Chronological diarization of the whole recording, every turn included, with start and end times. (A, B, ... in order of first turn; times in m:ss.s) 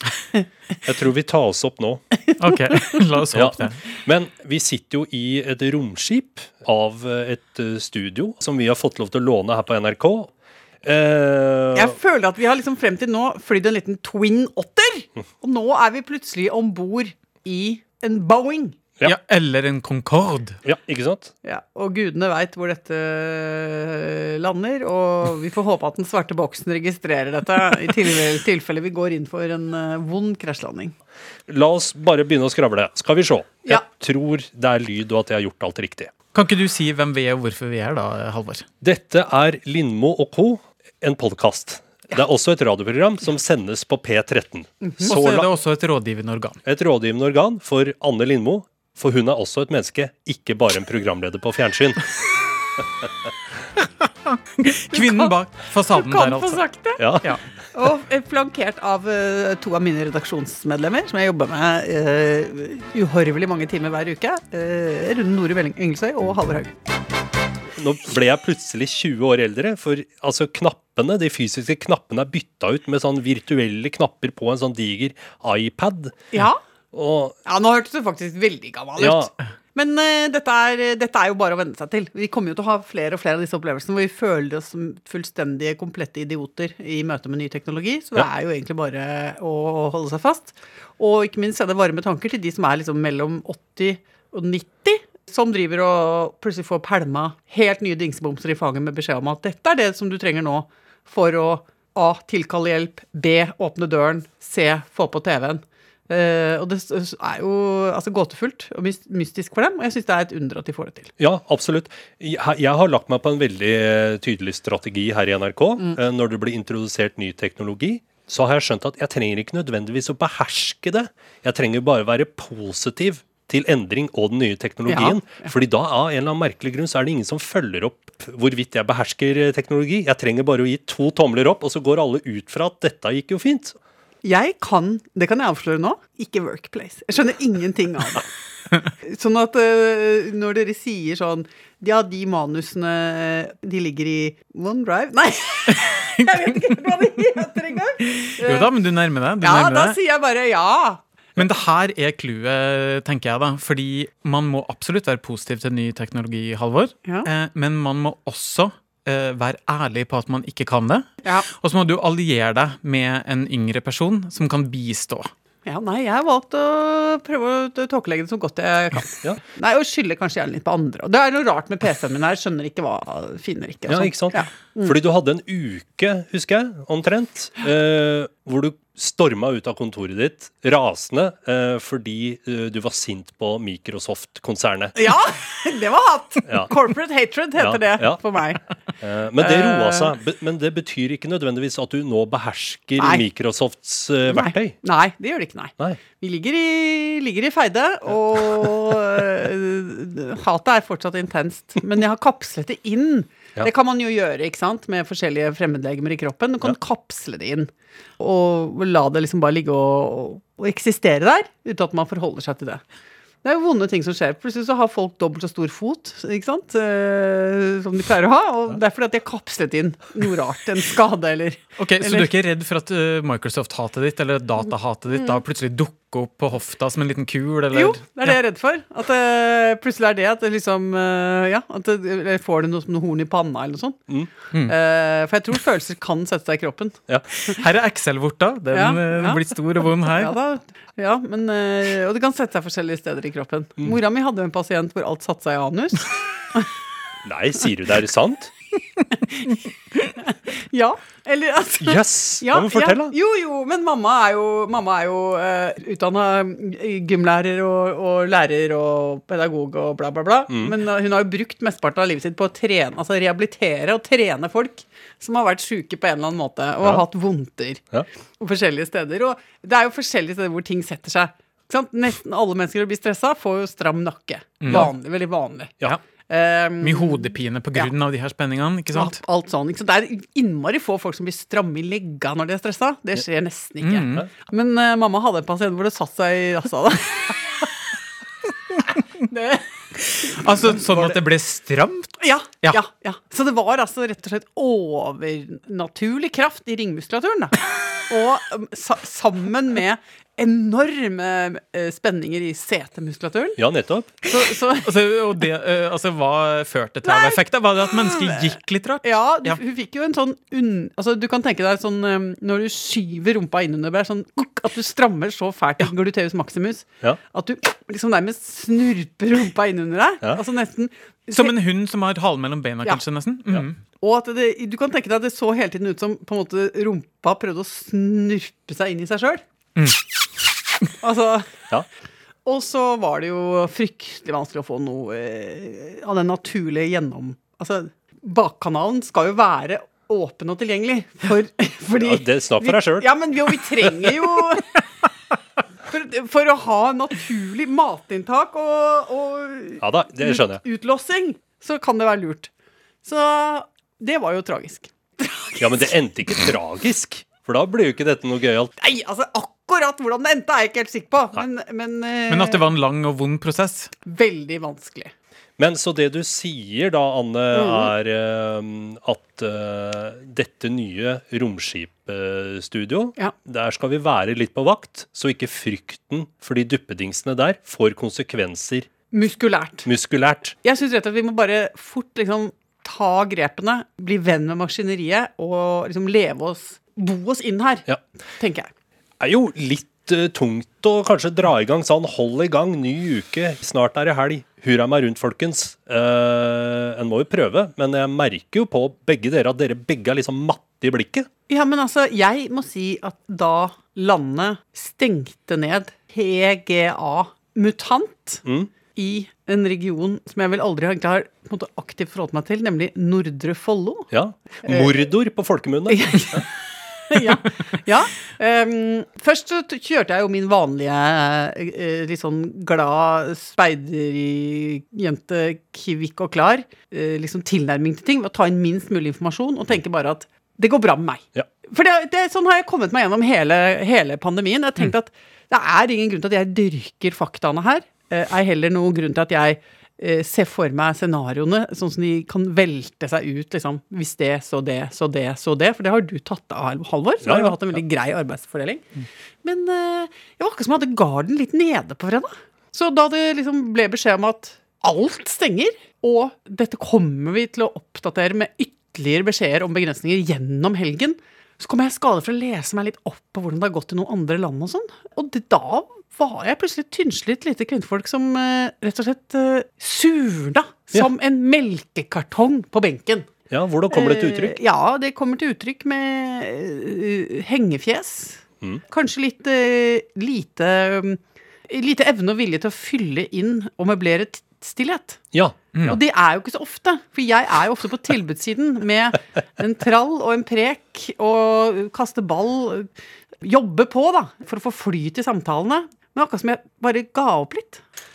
0:00.8-0:02.0 A
0:02.4-0:03.8 B
0:03.3-0:10.3 A
0:10.8-0:11.9 A
0:11.7-0:18.8 C
0:19.0-0:20.6 B
0:20.6-0:21.3 A
0:21.4-0:30.9 C
0:31.5-0:36.1 A
0:36.3-0:38.6 B
0:38.8-0:45.5 A
0:44.8-0:45.1 C
0:45.0-0:46.6 B
0:46.6-0:52.0 A
0:54.2-0:56.6 B
0:54.9-0:55.3 C
0:55.9-1:06.7 C
0:57.0-0:57.3 A
1:07.8-1:16.2 A
1:16.3-1:16.6 C
1:16.9-1:17.4 A
1:17.4-1:51.1 C
1:19.0-1:19.3 A
1:51.2-2:13.8 A
2:04.9-2:05.5 C
2:14.2-2:18.3 C
2:19.0-2:28.7 C
2:26.3-2:26.7 B
2:28.2-2:30.0 B
2:29.4-2:31.0 C
2:31.4-2:45.3 B
2:45.6-2:54.9 C
2:53.9-3:04.9 A
3:04.9-3:08.6 C
3:06.4-3:06.7 A
3:07.6-3:08.2 A
3:09.0-3:14.8 A
3:09.4-3:10.1 C
3:13.0-3:13.2 C
3:14.3-3:32.8 C
3:33.4-3:42.3 C
3:41.8-3:48.4 B
3:47.7-3:54.0 C
3:54.6-3:57.6 C
3:57.5-4:00.3 B
3:58.7-4:06.7 C
4:07.2-4:08.5 A
4:10.2-4:27.8 C
4:11.8-4:13.1 A
4:20.5-4:20.7 A
4:28.4-4:35.8 C
4:34.6-4:34.9 B
4:36.3-4:37.9 C
4:36.8-4:39.2 B
4:38.9-4:47.4 C
4:43.8-4:44.3 B
4:49.3-4:49.6 C
4:50.0-4:52.8 B
4:52.2-5:03.6 C
5:03.6-5:04.1 A
5:04.2-5:04.9 C
5:04.3-5:09.6 B
5:07.0-5:07.4 C
5:08.0-5:08.4 C
5:09.0-5:21.5 C
5:21.3-5:23.8 B
5:24.0-5:29.4 C
5:29.8-5:30.0 B
5:31.0-5:31.5 C
5:32.4-5:44.8 C
5:42.0-5:43.1 A
5:45.8-5:52.5 C
5:49.8-5:50.6 A
5:53.0-5:55.9 C
5:55.6-5:58.7 A
5:58.8-6:02.6 C
6:02.3-6:03.9 B
6:04.0-6:05.1 C
6:05.6-6:18.9 A
6:07.5-6:07.9 C
6:19.1-6:19.9 C
6:19.8-6:20.6 A
6:20.6-6:27.8 C
6:28.4-6:28.7 C
6:29.2-6:41.3 A
6:41.5-6:48.4 C
6:48.4-6:48.7 A
6:48.9-6:54.1 C
6:54.1-6:56.4 A
6:54.6-6:54.9 C
6:55.9-7:28.8 C
7:27.2-7:27.6 A
7:29.4-7:53.3 C
7:53.5-7:54.6 A
7:53.9-8:05.2 C
8:05.3-8:05.7 A
8:05.8-8:12.9 C
8:13.4-8:17.8 C